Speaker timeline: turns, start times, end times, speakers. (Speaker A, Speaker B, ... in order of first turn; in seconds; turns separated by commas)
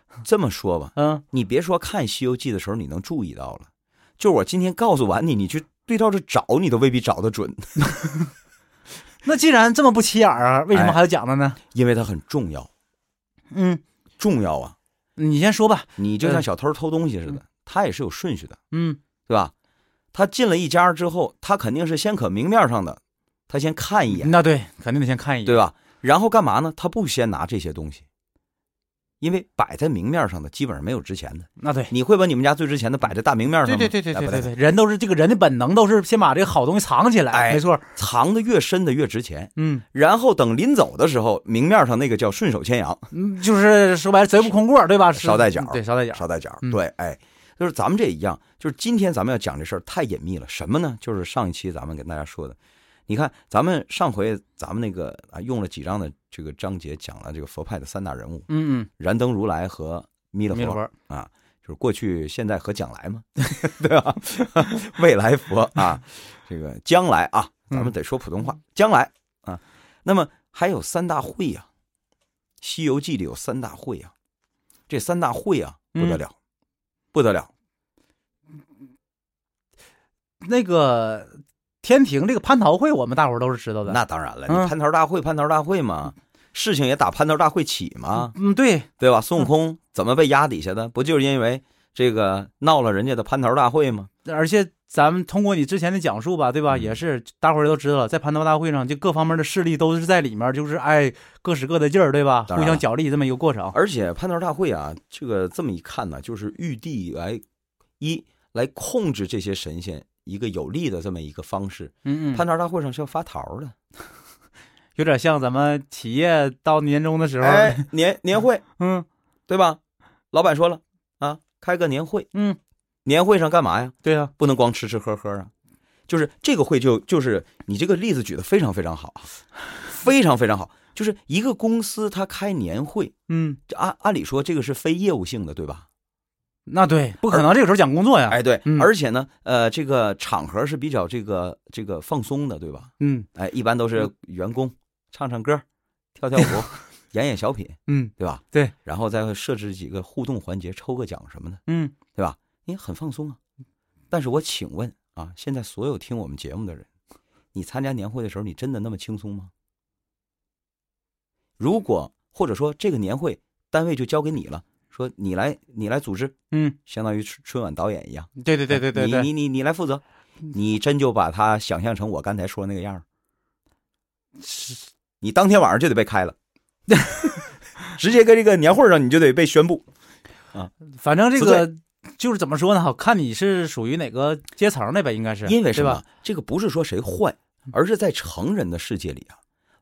Speaker A: 0.2-8.1, Speaker B: 0.9-1.2, Speaker B: 9.2-11.6, Speaker A: 10.7-11.0, Speaker A: 11.7-12.7, Speaker B: 13.5-13.8, Speaker A: 14.2-14.8, Speaker B: 15.2-16.4, Speaker A: 16.0-18.6, Speaker B: 18.7-19.0, Speaker A: 19.3-19.5, Speaker A: 20.1-24.3, Speaker B: 24.1-25.6, Speaker A: 25.4-28.0, Speaker A: 29.2-34.5, Speaker B: 31.6-31.9, Speaker B: 33.6-37.9, Speaker A: 37.3-43.1, Speaker B: 39.6-39.8, Speaker B: 43.1-46.8, Speaker A: 45.1-52.6, Speaker A: 53.1-71.7, Speaker B: 58.5-58.9, Speaker B: 60.5-60.9, Speaker A: 72.6-74.1, Speaker A: 74.9-76.3, Speaker B: 75.9-76.2, Speaker A: 77.1-77.5, Speaker B: 80.4-84.7, Speaker A: 83.9-88.3, Speaker B: 88.1-88.9, Speaker A: 89.0-94.1, Speaker B: 94.2-103.8, Speaker A: 96.7-96.9, Speaker A: 102.5-102.8, Speaker A: 103.7-107.4, Speaker A: 108.0-113.7, Speaker B: 112.0-112.4, Speaker B: 115.0-117.9, Speaker A: 117.4-118.6, Speaker B: 118.8-119.0, Speaker A: 119.5-119.8, Speaker A: 120.3-122.3, Speaker B: 122.3-122.6, Speaker A: 123.0-125.5, Speaker B: 124.0-124.3, Speaker A: 126.1-133.1, Speaker B: 133.3-133.6, Speaker A: 133.7-135.8, Speaker B: 136.7-138.9, Speaker A: 138.3-145.6, Speaker B: 143.0-143.3, Speaker A: 146.2-151.6, Speaker B: 147.9-148.7, Speaker B: 151.7-152.0, Speaker A: 152.1-153.4, Speaker A: 154.1-156.8, Speaker A: 157.5-159.5, Speaker A: 161.6-166.3, Speaker B: 166.5-166.8, Speaker A: 166.8-173.0, Speaker B: 168.4-169.3, Speaker B: 174.4-174.7, Speaker A: 175.2-176.3, Speaker B: 176.9-177.3, Speaker A: 177.9-179.8, Speaker B: 180.9-186.0, Speaker A: 181.4-181.7, Speaker A: 185.4-189.4